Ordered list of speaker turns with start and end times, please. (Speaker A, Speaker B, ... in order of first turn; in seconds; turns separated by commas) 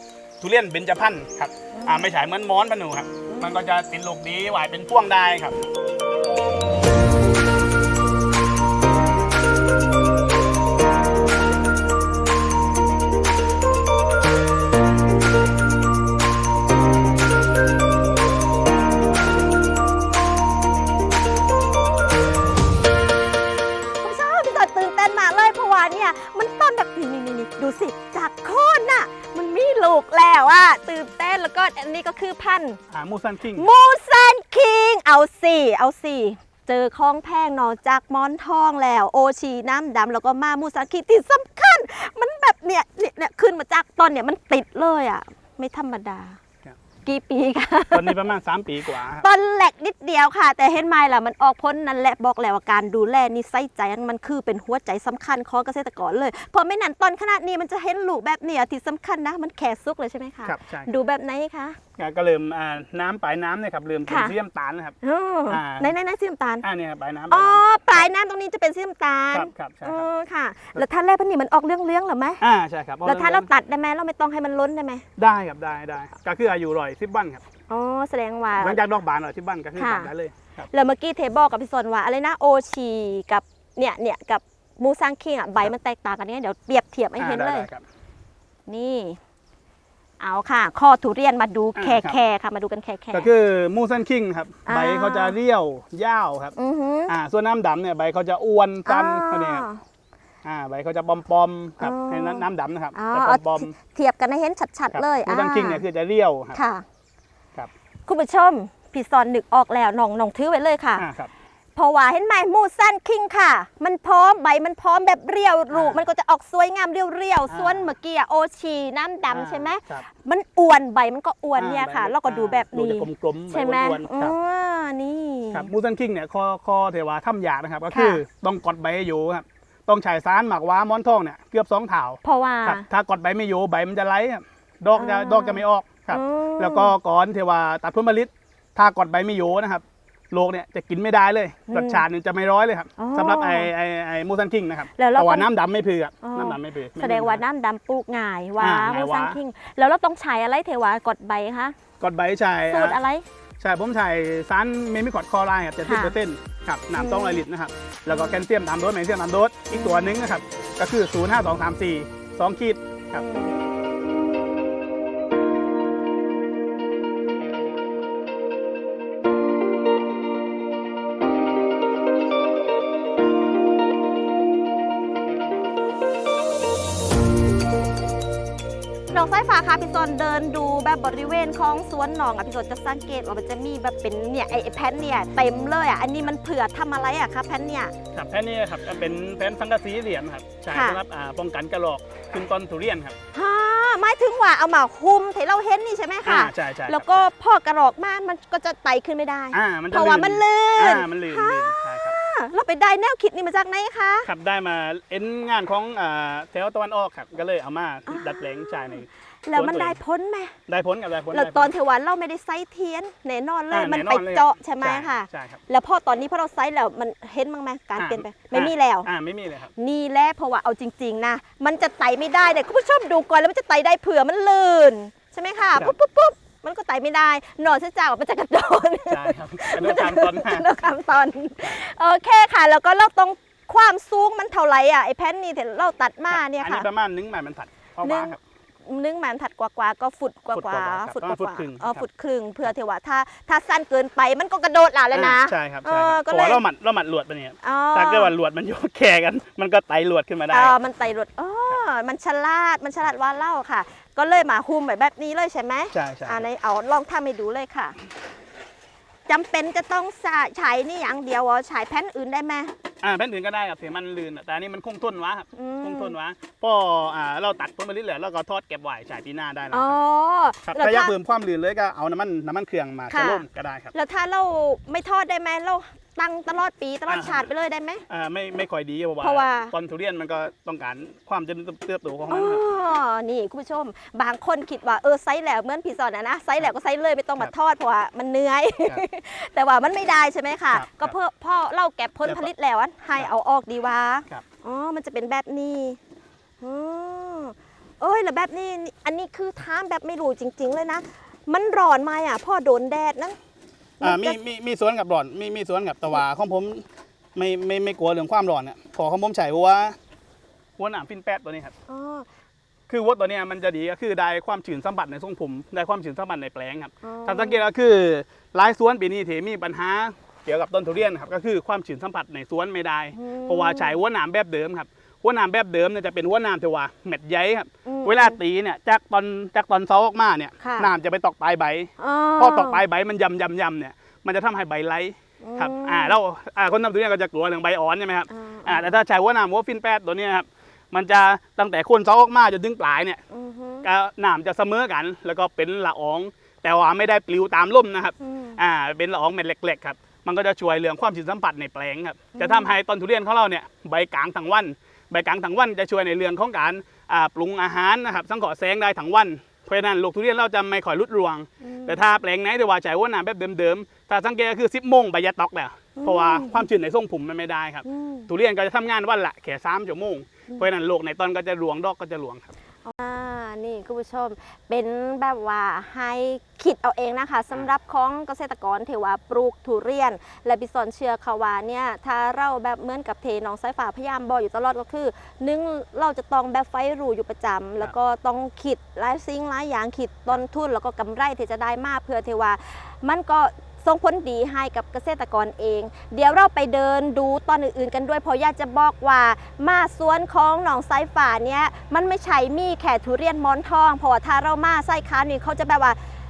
Speaker A: 0.4-5.6, Speaker B: 1.7-2.1, Speaker B: 3.3-3.5, Speaker B: 24.0-32.8, Speaker A: 32.9-33.7, Speaker B: 33.6-46.4, Speaker B: 47.0-48.2, Speaker A: 47.9-49.3, Speaker B: 49.1-61.8, Speaker A: 60.5-60.9, Speaker A: 62.0-65.0, Speaker B: 64.1-64.3, Speaker B: 65.0-66.7, Speaker A: 65.5-65.9, Speaker A: 66.6-68.1, Speaker B: 67.3-72.4, Speaker A: 69.3-70.1, Speaker A: 72.4-73.5, Speaker B: 73.0-75.0, Speaker A: 75.2-77.4, Speaker B: 77.7-78.8, Speaker A: 78.6-80.7, Speaker B: 79.8-80.1, Speaker B: 80.7-87.7, Speaker A: 87.2-87.8, Speaker B: 88.7-89.2, Speaker B: 90.2-93.3, Speaker A: 91.8-92.2, Speaker A: 93.1-96.5, Speaker B: 94.7-95.3, Speaker B: 96.6-97.1, Speaker A: 97.1-99.6, Speaker B: 98.9-99.8, Speaker A: 100.4-103.7, Speaker B: 101.8-105.8, Speaker A: 104.9-106.6, Speaker B: 106.5-106.8, Speaker B: 108.1-111.0, Speaker A: 111.0-111.3, Speaker B: 111.8-125.7, Speaker A: 115.7-116.0, Speaker A: 117.5-117.9, Speaker A: 119.3-120.1, Speaker A: 121.6-124.3, Speaker A: 125.5-147.4, Speaker B: 127.9-128.2, Speaker B: 132.2-132.9, Speaker B: 134.9-136.9, Speaker B: 141.7-142.0, Speaker B: 143.0-143.7, Speaker B: 145.0-145.5, Speaker B: 146.2-151.8, Speaker A: 148.6-149.4, Speaker A: 152.0-153.0, Speaker B: 152.7-153.2, Speaker A: 153.6-163.2, Speaker B: 155.8-156.2, Speaker B: 156.9-157.4, Speaker B: 158.1-158.4, Speaker B: 159.7-160.1, Speaker B: 163.1-163.5, Speaker B: 179.1-187.9, Speaker A: 188.1-193.2, Speaker B: 190.7-191.0, Speaker B: 193.3-204.3, Speaker A: 196.3-197.3, Speaker A: 199.5-202.2, Speaker A: 204.2-210.0, Speaker B: 208.1-210.6, Speaker A: 210.7-211.7, Speaker B: 211.3-219.1, Speaker A: 213.7-215.6, Speaker A: 218.0-219.7, Speaker B: 219.8-236.9, Speaker A: 229.1-230.7, Speaker A: 236.3-238.4, Speaker B: 238.0-246.6, Speaker A: 240.5-242.0, Speaker A: 245.1-250.8, Speaker B: 247.6-248.3, Speaker B: 250.5-258.0, Speaker A: 255.9-256.5, Speaker B: 259.3-262.7, Speaker A: 263.0-270.0, Speaker B: 265.6-266.1, Speaker B: 269.7-271.1, Speaker A: 270.7-273.9, Speaker B: 273.1-278.0, Speaker A: 277.1-277.4, Speaker A: 278.1-282.6, Speaker B: 279.2-279.7, Speaker B: 282.3-296.0, Speaker A: 290.7-291.1, Speaker B: 296.6-303.4, Speaker B: 304.0-304.4, Speaker A: 304.0-306.8, Speaker A: 307.4-310.0, Speaker A: 310.8-311.7, Speaker B: 311.9-312.3, Speaker A: 312.9-343.2, Speaker B: 317.0-317.6, Speaker B: 323.1-323.9, Speaker B: 327.9-328.4, Speaker B: 330.6-330.9, Speaker B: 332.0-332.8, Speaker B: 335.4-336.1, Speaker B: 338.3-338.9, Speaker B: 343.3-343.9, Speaker A: 343.8-372.5, Speaker B: 348.2-348.6, Speaker B: 352.4-352.7, Speaker B: 361.6-362.0, Speaker B: 366.0-366.6, Speaker B: 367.8-368.3, Speaker B: 372.9-406.0